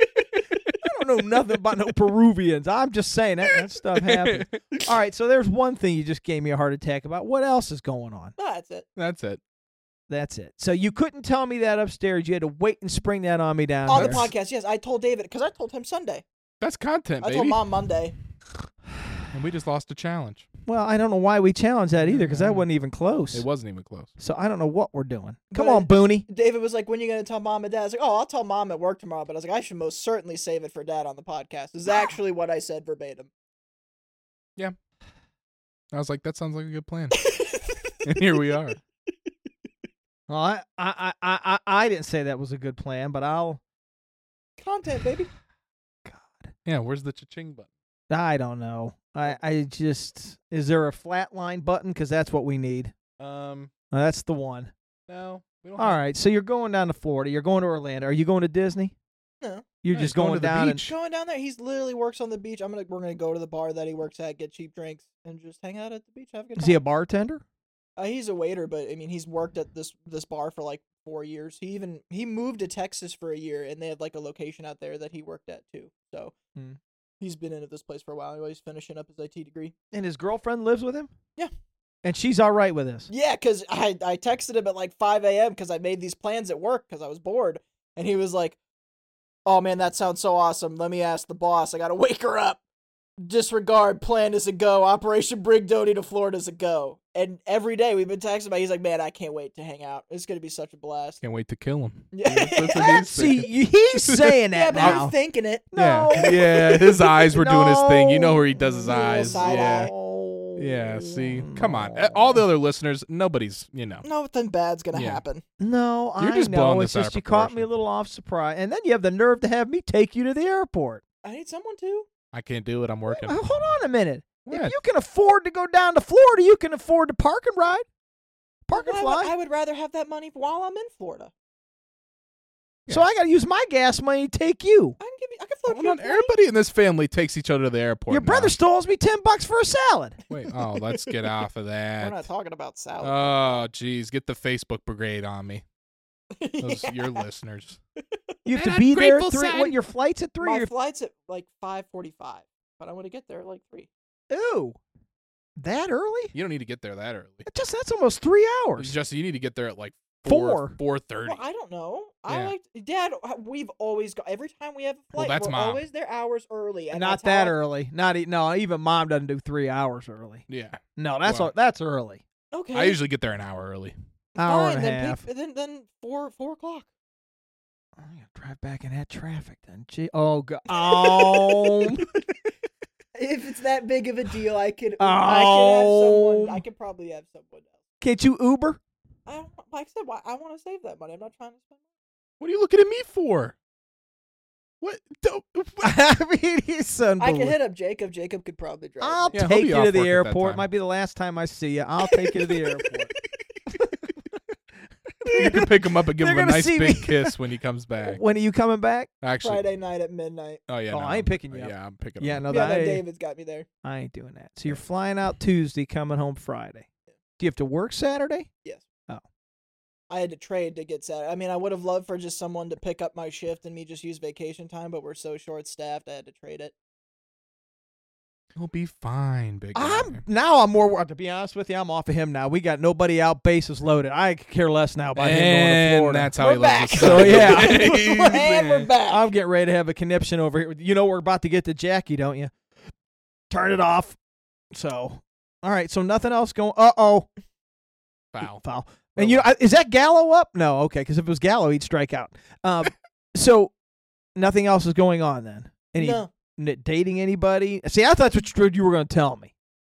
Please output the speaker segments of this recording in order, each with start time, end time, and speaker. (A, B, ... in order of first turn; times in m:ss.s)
0:00.8-0:08.3 A
0:04.0-0:04.6 B
0:08.4-0:08.8 C
0:09.0-0:09.4 B
0:10.1-0:14.2 A
0:13.9-0:16.2 C
0:13.9-0:14.3 B
0:16.6-0:17.6 B
0:17.2-0:18.1 C
0:19.3-0:20.5 B
0:20.7-0:23.4 A
0:22.0-0:22.7 B
0:23.3-0:24.1 B
0:24.2-0:26.2 A
0:25.5-0:33.3 C
0:35.9-0:37.2 B
0:37.2-0:37.9 C
0:38.0-0:38.8 B
0:40.3-0:43.6 A
0:44.6-0:45.3 C
0:46.0-0:46.5 A
0:46.6-0:47.7 B
0:48.1-0:52.9 A
0:53.2-0:53.7 B
0:53.9-0:54.7 A
0:55.1-0:56.0 B
0:55.8-0:58.9 A
0:59.8-1:00.9 A
0:59.9-1:00.9 B
1:00.7-1:06.8 C
1:06.6-1:07.4 A
1:08.0-1:16.3 C
1:17.2-1:19.7 C
1:19.9-1:21.1 A
1:22.0-1:23.1 A
1:23.1-1:28.6 C
1:29.4-1:32.6 C
1:33.2-1:41.2 C
1:41.2-1:45.1 B
1:42.1-1:43.1 C
1:43.1-1:45.1 A
1:44.5-1:46.4 C
1:45.7-1:52.4 A
1:45.7-1:49.9 B
1:48.8-1:49.9 C
1:50.6-1:54.0 B
1:54.0-1:55.4 C
1:54.9-1:55.2 B
1:55.6-2:01.0 A
1:56.2-1:57.7 B
2:01.2-2:02.1 C
2:02.3-2:03.4 B
2:03.1-2:07.8 A
2:04.4-2:04.8 B
2:08.7-2:09.3 A
2:08.7-2:11.3 C
2:12.9-2:15.0 A
2:15.0-2:16.3 C
2:15.7-2:18.5 B
2:18.1-2:20.2 A
2:20.3-2:22.2 B
2:22.0-2:23.6 C
2:23.0-2:25.6 B
2:26.4-2:27.2 C
2:26.6-2:27.8 B
2:28.4-2:30.7 A
2:28.5-2:29.7 B
2:30.4-2:33.9 C
2:34.3-2:34.8 A
2:35.6-2:36.3 A
2:36.3-2:37.4 B
2:37.4-2:38.9 A
2:38.8-2:41.4 B
2:40.2-2:40.8 A
2:41.2-2:47.6 C
2:42.3-2:42.5 B
2:45.1-2:45.8 B
2:46.9-2:52.2 A
2:50.5-2:51.5 B
2:52.5-2:53.0 C
2:52.7-2:53.9 B
2:54.4-2:55.2 A
2:54.4-2:56.9 C
2:58.0-3:02.2 A
3:00.7-3:02.0 C
3:03.1-3:07.7 C
3:05.0-3:06.6 A
3:08.0-3:08.8 A
3:09.2-3:11.7 C
3:12.4-3:13.6 B
3:14.8-3:15.9 B
3:15.8-3:17.6 A
3:17.2-3:19.4 C
3:19.0-3:23.1 A
3:19.3-3:20.7 B
3:22.2-3:23.2 C
3:25.2-3:27.4 A
3:25.3-3:28.2 B
3:28.0-3:29.1 A
3:29.2-3:29.6 B
3:29.4-3:30.6 C
3:30.7-3:32.5 B
3:30.9-3:33.0 A
3:32.5-3:33.7 C
3:33.8-3:36.9 A
3:37.4-3:38.5 A
3:40.1-3:46.7 C
3:48.5-3:50.2 B
3:49.7-3:56.3 A
3:55.2-3:58.9 B
3:56.4-3:59.2 C
3:56.9-3:58.4 A
3:59.0-4:02.5 A
4:03.5-4:04.2 A
4:04.7-4:07.3 A
4:08.3-4:08.6 B
4:08.4-4:13.7 A
4:09.2-4:09.5 B
4:14.4-4:19.5 A
4:16.0-4:16.3 C